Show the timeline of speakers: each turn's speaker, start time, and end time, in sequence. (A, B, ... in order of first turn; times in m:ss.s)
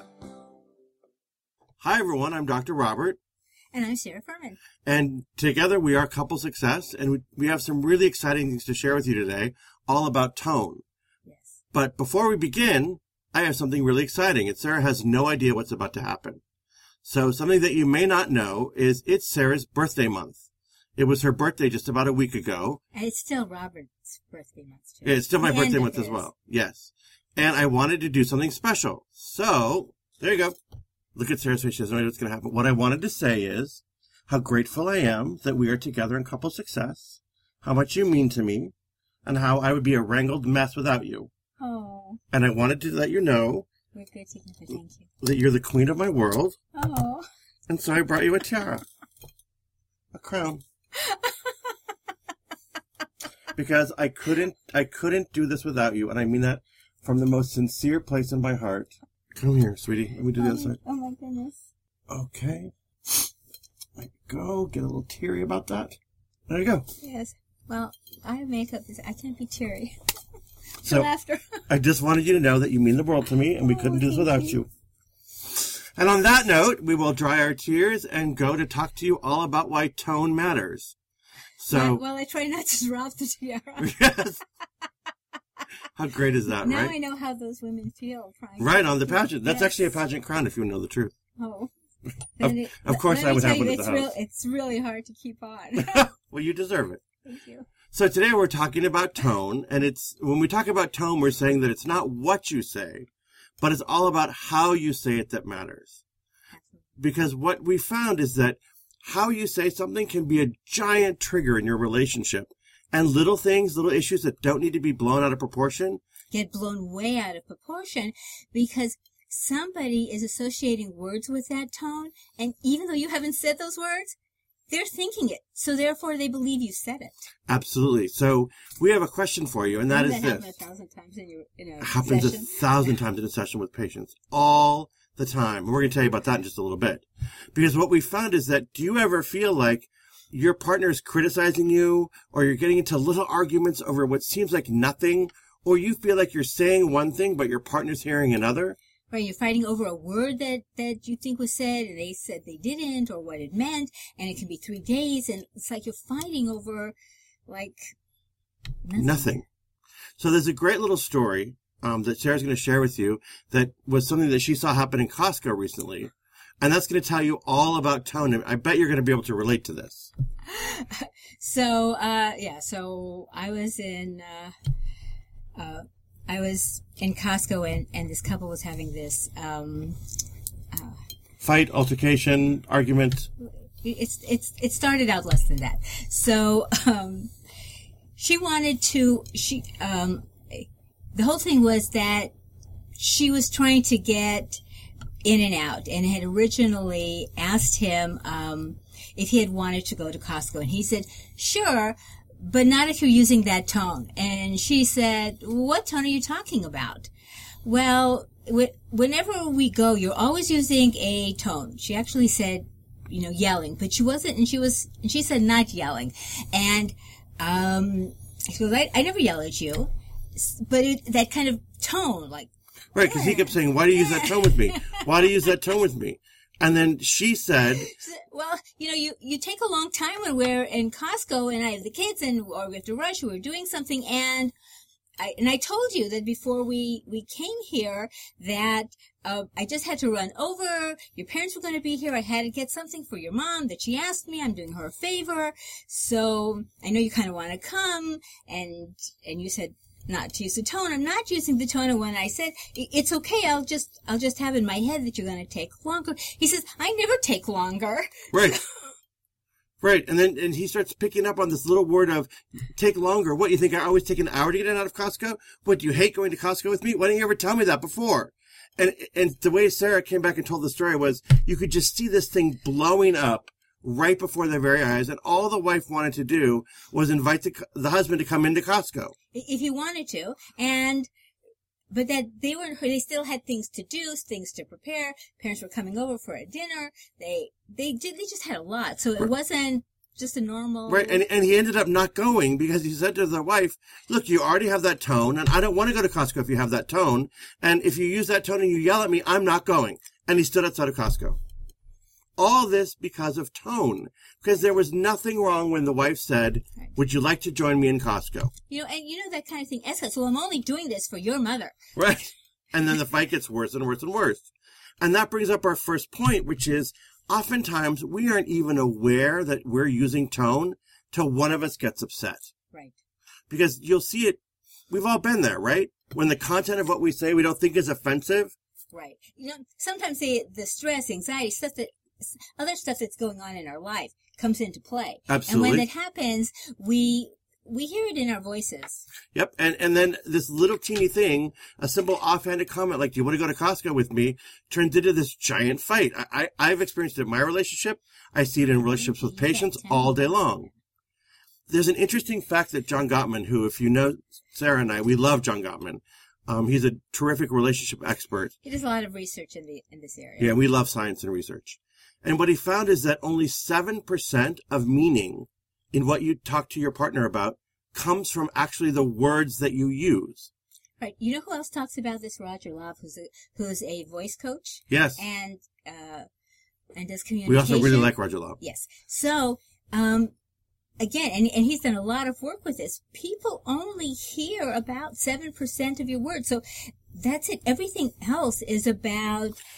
0:01.8-0:03.2 A
0:03.7-0:04.6 B
0:04.8-0:10.8 A
0:11.3-0:11.6 B
0:11.7-0:16.4 A
0:17.0-0:20.4 A
0:21.0-0:22.8 A
0:22.9-0:26.3 B
0:25.0-0:30.6 A
0:31.2-0:38.7 A
0:39.2-0:41.3 A
0:41.6-0:42.2 B
0:42.3-0:43.7 A
0:43.9-0:45.1 B
0:45.2-0:46.6 A
0:46.7-0:47.2 B
0:47.7-0:48.8 A
0:50.1-0:50.6 A
0:51.0-0:51.7 B
0:53.6-1:00.8 A
1:00.4-1:01.6 B
1:02.1-1:03.3 A
1:04.0-1:06.0 A
1:06.5-1:06.9 A
1:07.0-1:10.0 B
1:10.8-1:11.6 B
1:11.7-1:14.7 A
1:13.6-1:14.6 B
1:15.5-1:20.9 A
1:21.6-1:22.0 A
1:21.7-1:24.0 B
1:23.8-1:24.4 A
1:26.0-1:26.9 A
1:26.5-1:29.9 B
1:28.6-1:31.1 A
1:31.4-1:31.7 B
1:32.4-1:36.1 B
1:32.4-1:34.1 A
1:35.8-1:37.0 A
1:37.2-1:37.7 B
1:37.9-1:43.1 A
1:43.6-1:45.9 A
1:47.0-1:56.0 A
1:56.3-2:04.2 B
2:04.7-2:07.2 B
2:07.5-2:10.5 A
2:09.9-2:12.7 B
2:11.8-2:28.8 A
2:29.1-2:37.0 B
2:37.5-2:37.9 B
2:38.8-2:39.4 B
2:39.0-2:39.4 A
2:40.2-2:50.1 A
2:50.5-2:54.5 B
2:55.6-3:00.0 B
3:00.7-3:01.0 B
3:01.4-3:03.3 A
3:03.4-3:07.3 B
3:08.2-3:12.3 B
3:13.0-3:14.6 B
3:15.2-3:27.1 B
3:27.6-3:45.0 B
3:43.0-3:47.9 A
3:47.8-3:54.5 B
3:55.2-4:18.6 B
4:18.3-4:18.6 A
4:19.8-4:39.1 A
4:39.3-4:41.1 B
4:41.9-4:51.2 B
4:50.9-5:01.4 A
5:02.4-5:08.5 A
5:08.7-5:11.8 B
5:12.0-5:14.5 A
5:15.0-5:22.5 A
5:23.5-5:24.4 A
5:24.9-5:28.5 A
5:28.9-5:39.0 B
5:35.3-5:35.9 A
5:39.3-5:50.7 A
5:48.8-5:50.7 B
5:51.7-5:58.5 A
5:58.6-6:00.6 B
6:00.4-6:10.5 A
6:11.0-6:16.3 B
6:14.9-6:15.2 A
6:17.0-6:20.3 B
6:17.5-6:18.6 A
6:21.0-6:29.6 B